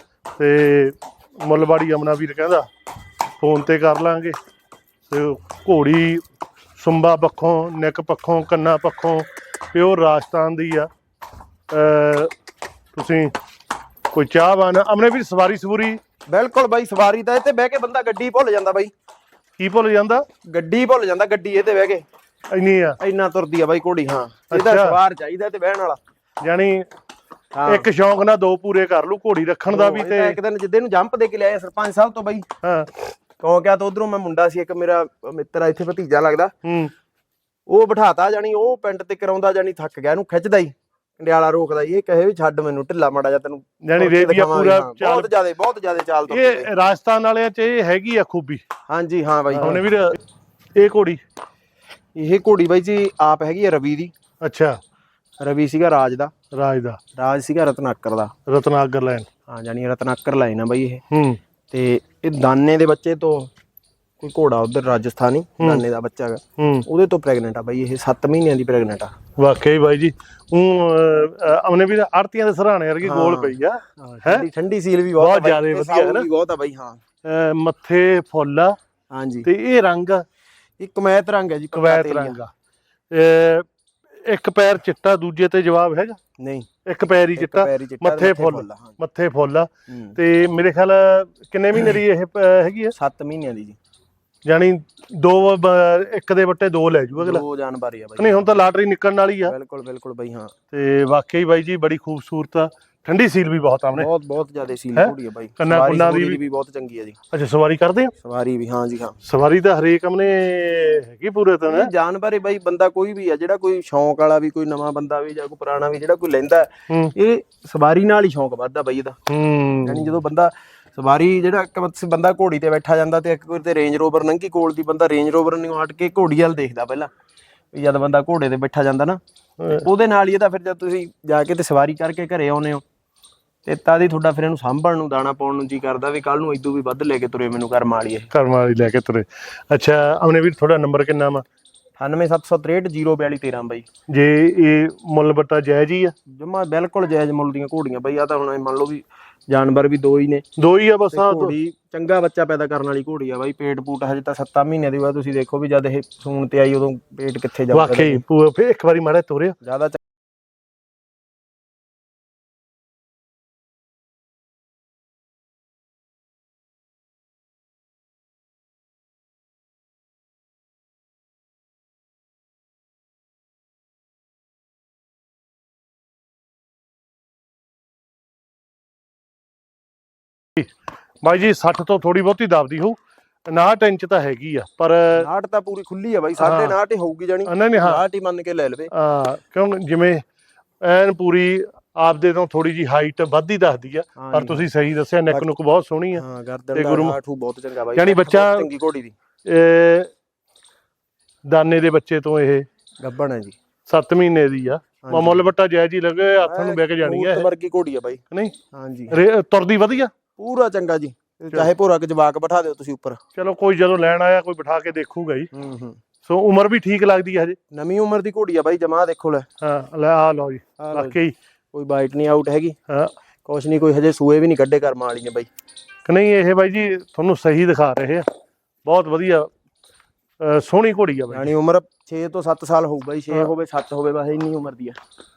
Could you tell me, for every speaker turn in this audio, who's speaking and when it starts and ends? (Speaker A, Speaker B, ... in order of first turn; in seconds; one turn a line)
Speaker A: 0.4-2.7
Speaker A: 3.4-4.3
Speaker A: 5.1-6.2
Speaker A: 6.8-10.9
Speaker A: 11.7-12.3
Speaker A: 12.9-13.3
Speaker A: 14.1-16.0
Speaker B: 16.3-18.9
Speaker A: 19.6-20.2
Speaker B: 20.5-22.0
Speaker A: 22.5-23.0
Speaker B: 23.0-26.0
Speaker A: 24.5-25.0
Speaker A: 26.4-26.9
Speaker B: 27.5-27.9
Speaker A: 27.6-30.4
Speaker B: 29.7-32.5
Speaker A: 32.6-32.9
Speaker B: 33.4-36.5
Speaker A: 36.6-36.9
Speaker B: 37.7-46.7
Speaker A: 43.8-45.3
Speaker A: 46.3-48.6
Speaker B: 48.9-49.8
Speaker A: 49.5-50.2
Speaker A: 50.8-51.2
Speaker B: 52.1-54.1
Speaker A: 54.4-54.8
Speaker B: 55.4-56.3
Speaker A: 56.5-57.0
Speaker B: 57.1-58.3
Speaker A: 58.5-59.3
Speaker B: 59.5-61.0
Speaker A: 61.1-61.4
Speaker B: 61.7-63.5
Speaker B: 64.2-69.1
Speaker A: 66.6-66.8
Speaker A: 69.4-74.5
Speaker B: 73.0-77.0
Speaker A: 75.2-76.2
Speaker A: 77.2-78.8
Speaker B: 79.1-79.5
Speaker A: 79.4-80.2
Speaker B: 80.8-82.4
Speaker A: 81.7-82.5
Speaker A: 83.1-83.7
Speaker A: 84.2-86.2
Speaker B: 86.4-86.7
Speaker A: 86.8-92.9
Speaker B: 87.3-89.0
Speaker B: 89.9-90.2
Speaker B: 92.9-93.8
Speaker A: 94.4-97.4
Speaker B: 97.2-98.5
Speaker A: 98.2-99.5
Speaker B: 99.5-100.5
Speaker A: 100.7-104.1
Speaker B: 103.9-107.2
Speaker A: 104.9-106.4
Speaker A: 107.3-108.1
Speaker B: 108.2-109.2
Speaker A: 109.2-111.9
Speaker B: 111.7-119.2
Speaker A: 119.3-120.2
Speaker B: 119.8-127.1
Speaker B: 127.7-129.2
Speaker A: 129.6-129.8
Speaker B: 129.8-132.8
Speaker B: 133.6-138.3
Speaker A: 138.3-141.4
Speaker B: 142.0-143.8
Speaker A: 144.1-146.1
Speaker B: 146.3-150.4
Speaker A: 150.6-151.5
Speaker B: 151.1-158.2
Speaker A: 157.7-159.6
Speaker B: 159.6-160.0
Speaker A: 181.2-183.0
Speaker A: 183.5-185.3
Speaker B: 185.1-188.9
Speaker A: 186.4-186.8
Speaker A: 187.5-188.0
Speaker A: 188.9-190.2
Speaker A: 190.8-197.2
Speaker B: 194.2-194.7
Speaker B: 196.1-199.1
Speaker A: 197.9-198.7
Speaker A: 199.4-200.1
Speaker A: 201.5-202.6
Speaker B: 203.0-203.5
Speaker A: 203.9-207.5
Speaker B: 205.0-205.4
Speaker B: 206.4-208.2
Speaker B: 208.7-209.2
Speaker A: 209.1-210.1
Speaker B: 210.4-213.2
Speaker A: 213.3-215.5
Speaker B: 215.5-216.0
Speaker A: 216.2-217.6
Speaker B: 217.7-219.5
Speaker A: 219.6-221.3
Speaker B: 220.8-221.2
Speaker B: 221.7-222.8
Speaker B: 223.4-225.5
Speaker A: 226.1-228.2
Speaker A: 228.8-229.5
Speaker A: 230.4-231.5
Speaker B: 231.3-234.9